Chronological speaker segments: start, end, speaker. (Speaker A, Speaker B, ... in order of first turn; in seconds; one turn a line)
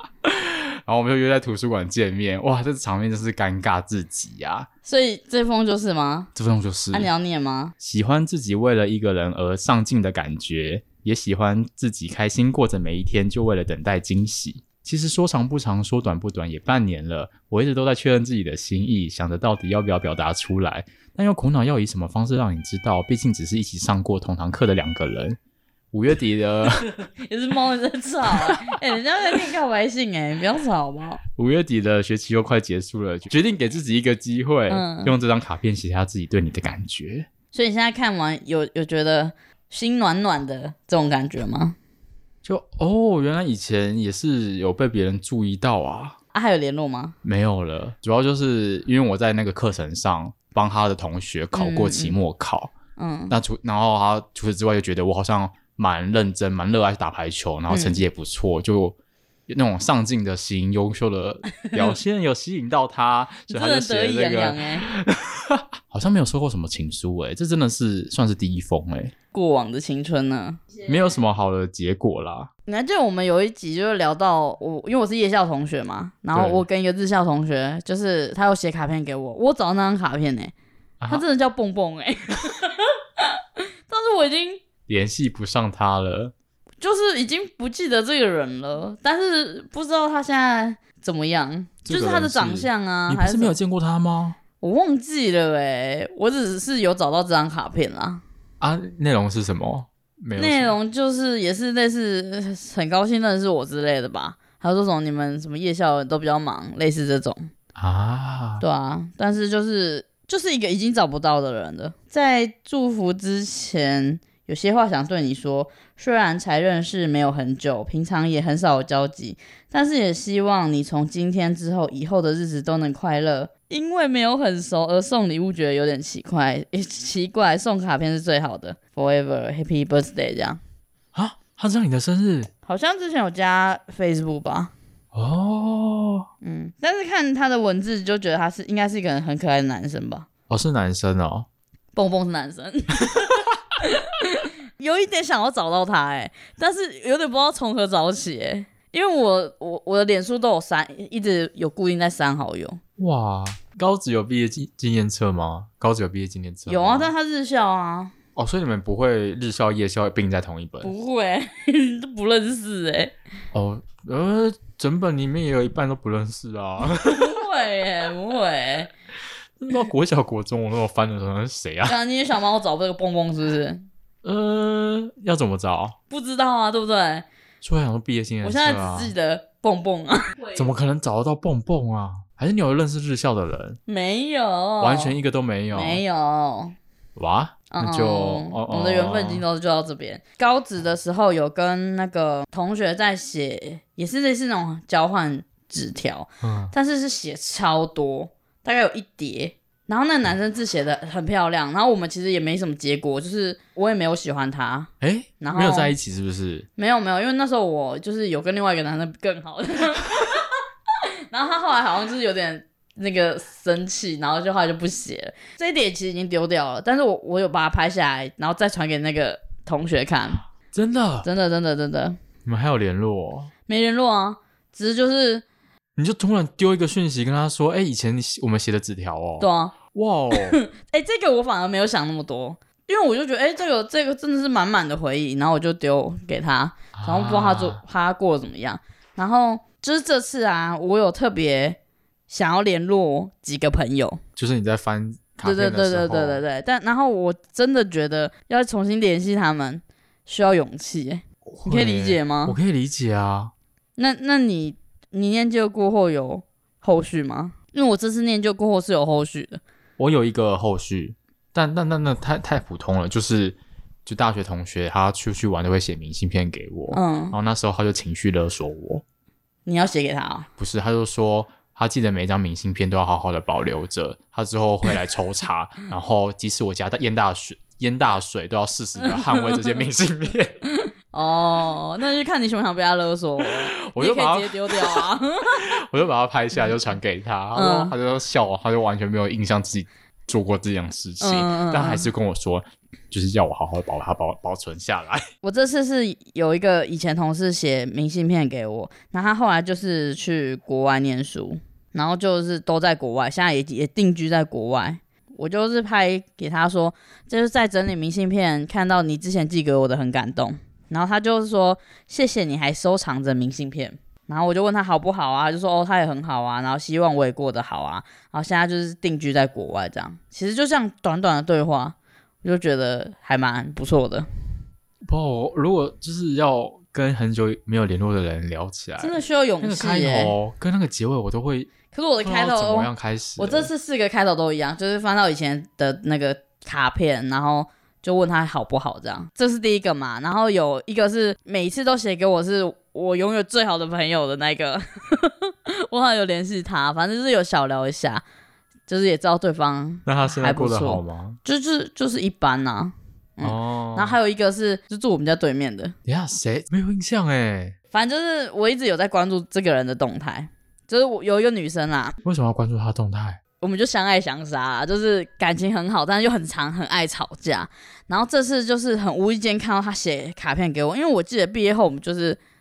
Speaker A: 0.2-4.7
Speaker B: 4.8-6.3
Speaker A: 6.3-7.1
Speaker B: 6.9-7.7
Speaker A: 7.8-25.4
Speaker A: 25.9-26.9
Speaker B: 26.9-31.2
Speaker A: 31.4-37.3
Speaker B: 34.7-35.2
Speaker B: 37.5-41.8
Speaker A: 42.4-46.2
Speaker B: 46.3-47.2
Speaker A: 47.2-52.7
Speaker B: 51.5-52.2
Speaker B: 53.0-53.3
Speaker A: 53.3-59.0
Speaker B: 57.7-58.0
Speaker A: 59.5-69.1
Speaker B: 63.5-64.9
Speaker B: 69.3-70.7
Speaker A: 70.8-72.5
Speaker B: 72.7-80.5
Speaker A: 76.3-76.6
Speaker A: 81.0-81.2
Speaker B: 81.1-84.6
Speaker A: 84.9-86.3
Speaker B: 86.8-93.6
Speaker A: 91.9-94.4
Speaker B: 94.6-98.2
Speaker A: 98.6-100.8
Speaker B: 100.4-107.5
Speaker A: 107.8-108.7
Speaker B: 108.6-130.6
Speaker A: 131.1-132.5
Speaker B: 132.7-134.7
Speaker A: 135.1-136.3
Speaker B: 136.4-140.3
Speaker A: 140.5-141.5
Speaker B: 141.9-152.8
Speaker A: 153.0-157.1
Speaker B: 156.7-158.1
Speaker A: 158.4-160.9
Speaker B: 160.8-163.1
Speaker A: 163.5-167.4
Speaker B: 167.0-168.9
Speaker A: 169.6-172.0
Speaker B: 171.9-173.9
Speaker A: 174.2-176.0
Speaker B: 176.1-177.3
Speaker A: 177.6-179.1
Speaker B: 178.4-180.6
Speaker A: 180.5-183.8
Speaker B: 183.9-185.2
Speaker A: 184.8-186.0
Speaker B: 185.7-186.8
Speaker A: 187.2-189.4
Speaker B: 187.7-205.9
Speaker A: 196.4-196.7
Speaker A: 205.0-206.7
Speaker B: 206.8-220.4
Speaker A: 220.7-221.3
Speaker B: 221.2-222.2
Speaker A: 222.5-223.5
Speaker B: 223.7-225.4
Speaker A: 226.0-230.6
Speaker B: 229.4-229.8
Speaker B: 230.3-241.8
Speaker A: 236.9-237.8
Speaker B: 242.3-244.2
Speaker A: 244.4-246.4
Speaker B: 245.4-252.6
Speaker A: 251.5-253.5
Speaker B: 254.0-259.6
Speaker A: 260.0-269.0
Speaker B: 266.9-267.4
Speaker B: 269.7-270.5
Speaker A: 270.6-280.6
Speaker B: 279.0-279.6
Speaker B: 280.7-285.7
Speaker A: 283.5-295.2
Speaker B: 287.5-287.9
Speaker B: 291.2-292.1
Speaker B: 295.4-324.3
Speaker A: 325.1-333.7
Speaker B: 329.0-330.4
Speaker B: 331.9-348.2
Speaker B: 348.9-355.9
Speaker A: 350.1-351.4
Speaker A: 353.4-354.2
Speaker A: 356.1-357.8
Speaker B: 357.9-362.2
Speaker A: 362.2-363.4
Speaker B: 363.6-372.4